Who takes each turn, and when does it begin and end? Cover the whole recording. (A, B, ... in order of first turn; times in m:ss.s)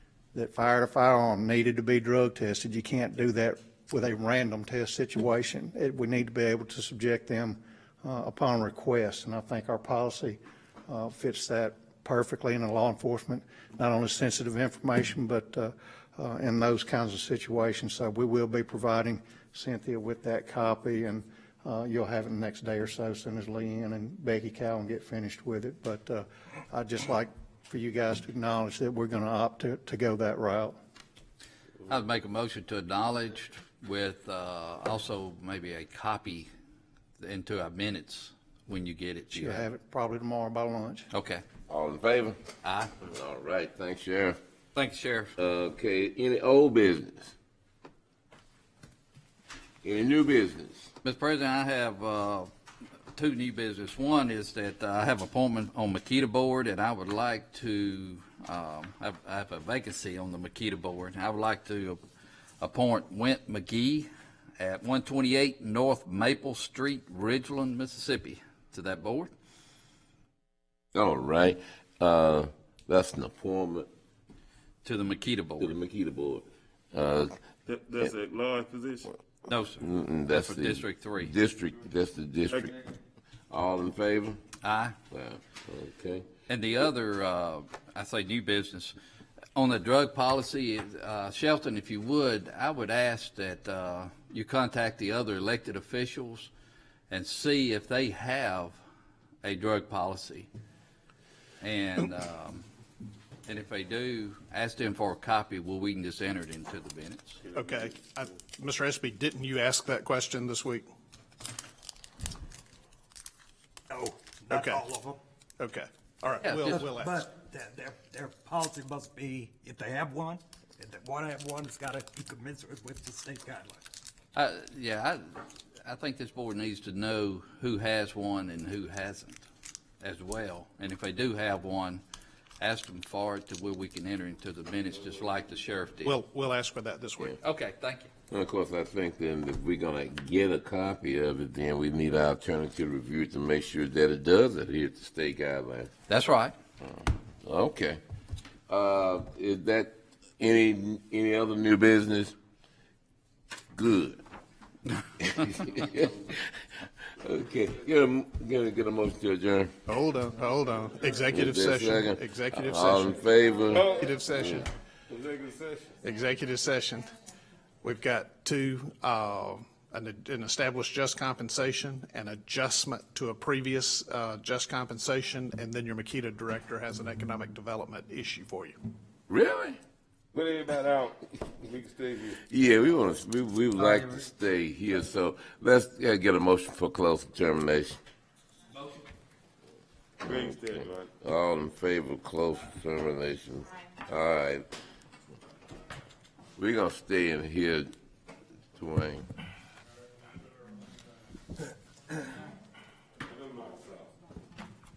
0:00.3-0:30.8 A
0:31.9-0:36.5 B
0:37.2-0:39.7 B
0:39.3-0:41.1 A
0:41.1-0:41.4 B
0:41.7-0:42.4 C
0:42.6-0:42.9 B
0:43.0-0:44.4 C
0:44.7-0:45.3 B
0:45.4-0:47.3 C
0:49.8-0:50.9 C
0:51.0-0:52.5 B
0:53.1-1:02.0 B
1:02.6-1:09.3 B
1:10.9-1:13.9 C
1:14.8-1:15.7 B
1:15.6-1:17.4 C
1:17.7-1:19.2 D
1:19.5-1:21.3 B
1:19.8-1:22.7 C
1:23.5-1:24.4 C
1:24.6-1:25.0 B
1:25.1-1:26.3 C
1:26.5-1:28.9 B
1:29.5-1:36.5 B
1:37.1-1:38.8 B
1:39.4-1:40.5 B
1:41.6-1:42.6 B
1:43.5-1:47.4 B
1:47.5-1:50.9 E
1:53.9-1:55.2 F
1:54.5-1:54.8 E
1:55.6-1:57.2 E
1:56.4-1:56.8 B
1:56.7-2:03.8 F
2:04.3-2:09.4 B
2:10.0-2:12.0 B
2:12.6-2:16.2 B
2:16.0-2:17.4 E
2:17.4-2:18.1 B
2:18.3-2:25.9 C
2:26.1-2:26.5 B
2:27.4-2:28.0 C
2:28.7-2:32.3 C
2:33.7-2:34.2 C
2:35.2-2:39.7 C
2:39.9-2:43.2 E
2:41.3-2:44.6 C
2:43.7-2:44.1 D
2:43.8-2:44.7 E
2:45.1-2:46.0 D
2:46.0-2:47.1 E
2:47.8-2:58.8 E
2:59.3-2:59.8 C
3:00.3-3:02.4 D
3:02.4-3:08.0 C
3:10.2-3:11.1 D
3:10.2-3:14.6 C
3:16.6-3:17.9 C
3:18.8-3:19.2 C
3:23.6-3:23.9 D